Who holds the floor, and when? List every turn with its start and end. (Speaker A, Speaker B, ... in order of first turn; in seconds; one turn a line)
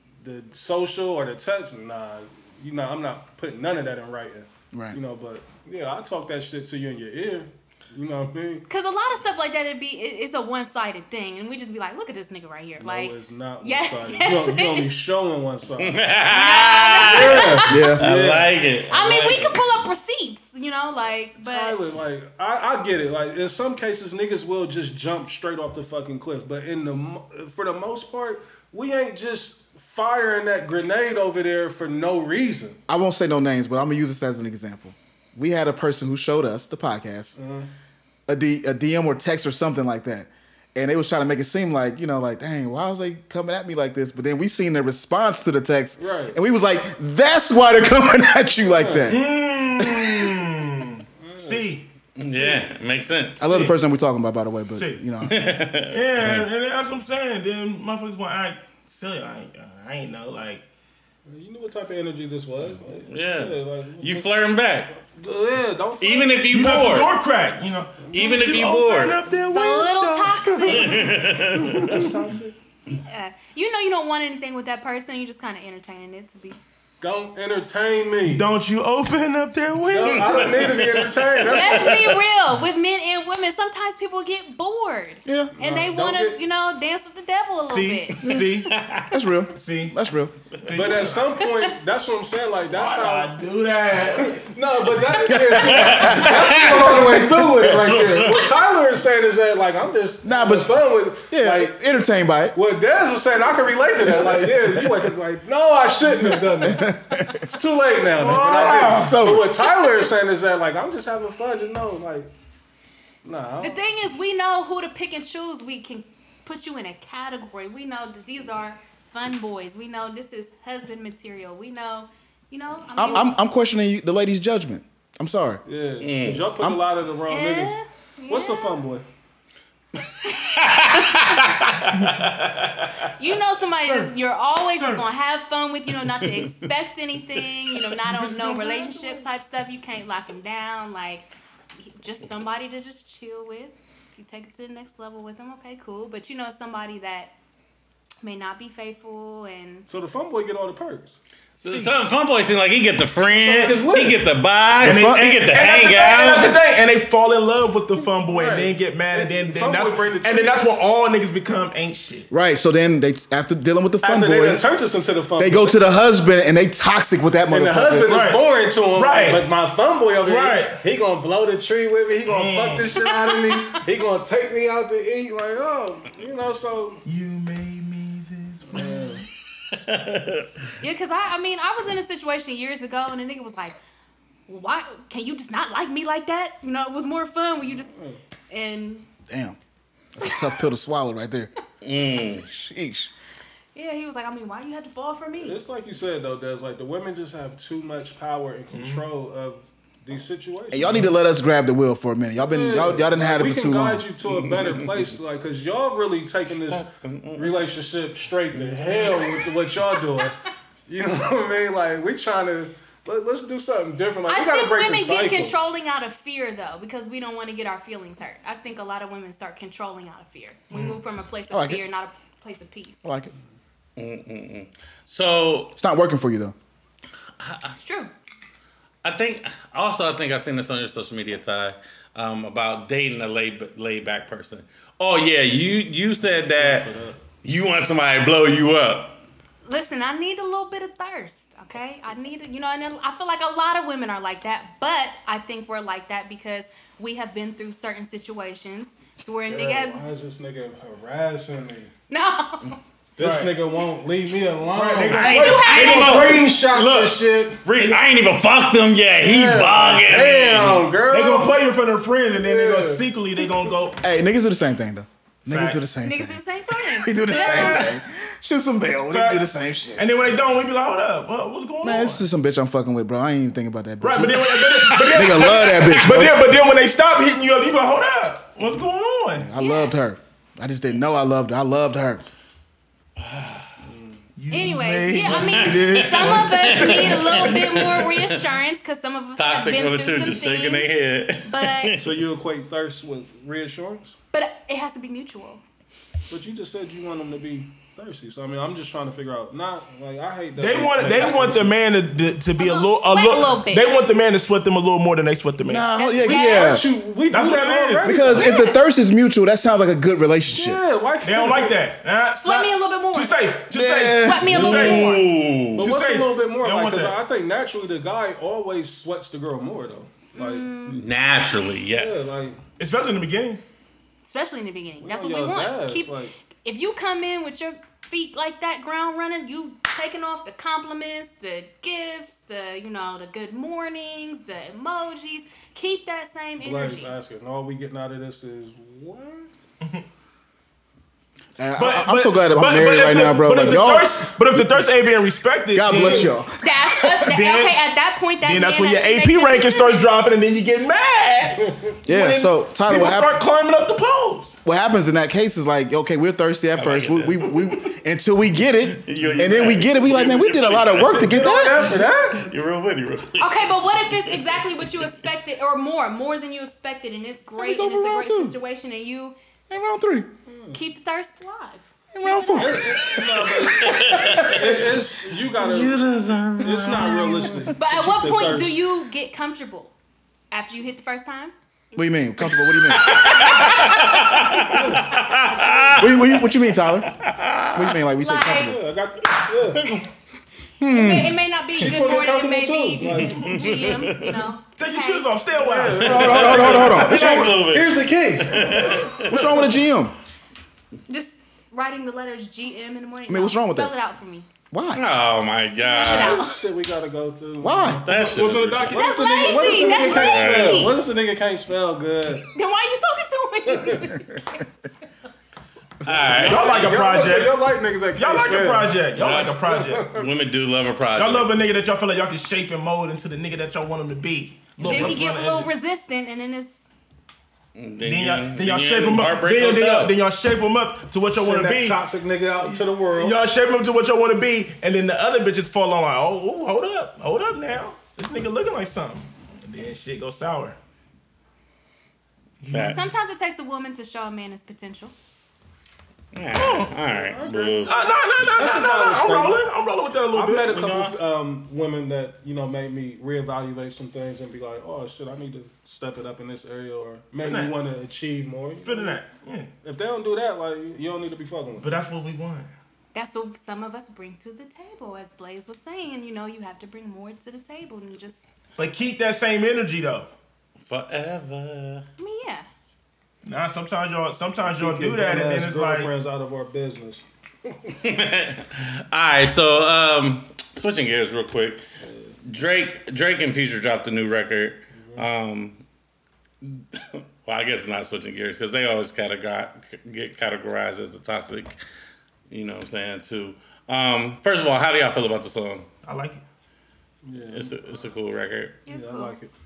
Speaker A: 0.2-8.7
Speaker B: 4.7-5.0
Speaker C: 8.7-14.9
Speaker A: 12.8-16.1
Speaker D: 15.8-19.9
Speaker C: 16.2-17.9
Speaker A: 17.0-18.5
Speaker B: 17.7-18.0
Speaker C: 18.9-21.8
Speaker A: 21.4-32.8
Speaker B: 32.9-37.4
Speaker A: 37.4-37.7
Speaker B: 38.3-49.2
Speaker A: 46.0-46.4
Speaker A: 48.7-49.2
Speaker E: 49.1-51.9
Speaker B: 49.8-50.3
Speaker A: 51.2-51.7
Speaker D: 52.2-53.5
Speaker A: 52.3-52.6
Speaker B: 53.4-55.3
Speaker E: 53.4-53.7
Speaker E: 54.7-55.0
Speaker D: 55.2-56.5
Speaker E: 55.9-60.6
Speaker A: 61.3-64.3
Speaker D: 63.1-65.0
Speaker A: 65.0-66.5
Speaker D: 66.0-67.1
Speaker E: 66.5-71.2
Speaker A: 68.0-68.6
Speaker D: 68.1-69.2
Speaker C: 69.5-71.1
Speaker D: 70.7-72.1
Speaker A: 71.3-72.5
Speaker C: 73.0-76.6
Speaker A: 77.0-78.5
Speaker E: 78.2-80.9
Speaker A: 79.9-82.2
Speaker D: 80.2-81.1
Speaker C: 81.5-88.4
Speaker B: 85.3-85.5
Speaker A: 85.5-86.4
Speaker E: 87.6-88.7
Speaker D: 88.2-89.1
Speaker B: 89.1-90.3
Speaker E: 89.5-90.0
Speaker E: 90.6-91.3
Speaker A: 90.7-93.4
Speaker C: 91.4-91.7
Speaker E: 92.7-95.2
Speaker A: 93.9-101.8
Speaker B: 95.2-97.7
Speaker D: 95.6-97.1
Speaker D: 97.9-98.5
Speaker B: 100.2-102.5
Speaker A: 102.5-112.3
Speaker B: 104.0-105.1
Speaker B: 106.2-107.5
Speaker E: 108.1-109.3
Speaker B: 108.7-109.7
Speaker A: 113.2-113.8
Speaker C: 113.6-123.4
Speaker B: 123.0-125.6
Speaker A: 125.7-127.8
Speaker D: 126.0-126.5
Speaker C: 127.3-128.8
Speaker A: 128.3-129.0
Speaker D: 130.1-132.9
Speaker C: 130.9-131.5
Speaker E: 131.9-132.3
Speaker C: 133.1-147.3
Speaker E: 133.8-134.1
Speaker E: 134.7-135.1
Speaker D: 136.2-136.5
Speaker A: 138.4-139.2
Speaker C: 148.2-149.9
Speaker A: 149.9-151.2
Speaker D: 151.6-156.6
Speaker E: 151.6-151.9
Speaker A: 153.2-154.2
Speaker B: 154.8-155.3
Speaker E: 154.8-162.3
Speaker A: 158.3-160.7
Speaker B: 162.3-164.6
Speaker A: 164.0-165.8
Speaker B: 165.4-168.2
Speaker A: 167.5-177.0
Speaker E: 168.1-169.5
Speaker E: 170.2-170.8
Speaker E: 172.2-173.0
Speaker C: 173.0-173.7
Speaker E: 177.1-179.2
Speaker A: 178.7-179.2
Speaker D: 179.7-180.5
Speaker C: 180.8-183.8
Speaker C: 184.5-187.9
Speaker A: 187.6-188.2
Speaker C: 188.5-189.1
Speaker B: 189.3-189.6
Speaker B: 190.2-191.5
Speaker D: 191.8-192.4
Speaker B: 192.3-193.1
Speaker C: 193.7-195.6
Speaker A: 195.4-201.1
Speaker E: 198.7-199.1
Speaker B: 200.7-204.1
Speaker A: 202.4-215.6
Speaker D: 204.2-205.1
Speaker D: 206.5-207.6
Speaker D: 208.5-209.5
Speaker C: 214.3-223.1
Speaker E: 220.7-221.0
Speaker B: 221.5-221.8
Speaker B: 223.0-223.3
Speaker D: 224.0-225.7
Speaker B: 225.8-226.6
Speaker D: 227.4-227.7
Speaker C: 227.8-228.1
Speaker D: 229.0-236.9
Speaker A: 236.2-237.2
Speaker D: 237.4-239.2
Speaker C: 239.6-250.1
Speaker A: 249.5-251.9
Speaker C: 252.1-252.8
Speaker E: 253.2-253.6
Speaker A: 253.2-257.6
Speaker E: 254.7-256.5
Speaker D: 255.1-260.8
Speaker C: 255.1-256.3
Speaker A: 259.2-261.6
Speaker E: 260.8-264.0
Speaker A: 262.4-263.7
Speaker B: 264.0-270.1
Speaker E: 265.5-265.9
Speaker C: 266.0-267.9
Speaker E: 267.3-267.9
Speaker E: 269.1-269.4
Speaker E: 269.9-272.2
Speaker B: 271.8-276.4
Speaker E: 274.0-279.5
Speaker D: 274.8-276.1
Speaker B: 279.4-282.2
Speaker C: 279.6-279.9
Speaker D: 283.2-283.8
Speaker A: 283.8-284.2
Speaker E: 284.4-288.0
Speaker C: 284.5-290.9
Speaker D: 285.3-288.4
Speaker D: 289.4-292.2
Speaker C: 291.4-291.9
Speaker A: 292.0-294.2
Speaker C: 294.3-295.6
Speaker A: 296.3-301.7
Speaker E: 300.6-305.9
Speaker C: 302.6-304.0
Speaker B: 305.7-306.9
Speaker C: 305.9-306.8
Speaker A: 306.2-308.4
Speaker E: 307.3-308.5
Speaker B: 308.0-310.8
Speaker C: 308.3-308.8
Speaker A: 310.5-311.8
Speaker E: 311.2-317.2
Speaker C: 312.3-313.5
Speaker B: 313.7-315.1
Speaker C: 314.1-315.2
Speaker D: 314.5-315.9
Speaker A: 315.8-320.7
Speaker C: 320.3-321.0
Speaker D: 320.9-322.4
Speaker A: 321.9-322.6
Speaker E: 322.8-323.6
Speaker C: 324.2-337.1
Speaker A: 325.0-326.3
Speaker A: 336.6-339.5
Speaker B: 341.6-345.1
Speaker E: 341.8-346.4
Speaker B: 345.7-347.3
Speaker C: 346.6-350.1
Speaker E: 347.3-347.8
Speaker E: 348.4-354.6
Speaker B: 352.1-353.4
Speaker B: 354.6-361.9
Speaker D: 356.8-357.5
Speaker D: 358.9-361.2
Speaker E: 359.2-361.6
Speaker A: 361.1-362.5
Speaker D: 362.3-365.1
Speaker C: 363.4-369.4
Speaker B: 367.6-368.6
Speaker B: 369.7-370.3
Speaker A: 370.5-370.8
Speaker C: 370.7-372.9
Speaker B: 372.1-373.0
Speaker A: 372.6-376.0
Speaker D: 373.1-377.7
Speaker B: 373.9-374.6
Speaker A: 376.6-378.9
Speaker C: 377.8-379.9
Speaker C: 380.5-382.0
Speaker B: 381.9-383.5
Speaker D: 382.9-388.0
Speaker C: 383.0-385.9
Speaker A: 384.8-385.1
Speaker B: 386.0-387.1
Speaker B: 387.7-388.8
Speaker C: 388.2-388.7
Speaker A: 388.5-390.0
Speaker D: 390.9-391.3
Speaker C: 390.9-395.3
Speaker A: 391.7-393.6
Speaker E: 393.4-394.0
Speaker D: 393.4-394.5
Speaker E: 394.8-397.6
Speaker A: 395.5-399.2
Speaker B: 396.0-397.3
Speaker D: 396.2-399.6
Speaker E: 398.6-399.8
Speaker B: 399.3-400.1
Speaker C: 401.1-404.5
Speaker B: 403.3-403.9
Speaker B: 404.7-405.0
Speaker D: 404.9-406.4
Speaker C: 405.6-406.6
Speaker A: 406.1-408.4
Speaker B: 407.6-408.1
Speaker D: 408.0-408.9
Speaker E: 408.1-409.9
Speaker C: 408.9-410.9
Speaker A: 408.9-412.5
Speaker D: 409.7-410.9
Speaker C: 412.5-414.7
Speaker A: 413.7-414.1
Speaker D: 416.1-416.8
Speaker A: 416.1-420.2
Speaker E: 416.3-417.6
Speaker E: 418.1-420.1
Speaker D: 419.2-419.6
Speaker D: 420.1-421.5
Speaker E: 421.2-425.7
Speaker D: 424.8-425.1
Speaker C: 424.8-426.9
Speaker D: 427.7-430.1
Speaker E: 428.0-432.0
Speaker A: 431.3-433.4
Speaker E: 432.6-440.8
Speaker E: 442.6-443.1
Speaker D: 442.7-443.1
Speaker C: 442.8-445.1
Speaker D: 446.3-447.9
Speaker E: 446.6-446.9
Speaker A: 447.0-449.7
Speaker E: 447.9-450.8
Speaker A: 450.3-459.2
Speaker D: 450.7-451.2
Speaker E: 457.4-457.7
Speaker E: 458.8-459.7
Speaker A: 459.8-461.9
Speaker E: 461.8-462.7
Speaker C: 463.1-468.5
Speaker E: 468.8-470.3
Speaker D: 470.8-472.1
Speaker C: 472.2-472.7
Speaker E: 473.4-476.1
Speaker A: 474.6-478.0
Speaker D: 477.9-481.8
Speaker A: 482.0-482.3
Speaker D: 482.5-485.8
Speaker A: 484.9-485.3
Speaker D: 486.6-491.8
Speaker D: 492.5-495.9
Speaker E: 496.0-496.4
Speaker A: 497.2-498.1
Speaker D: 497.5-498.8
Speaker C: 498.9-499.4
Speaker A: 498.9-499.5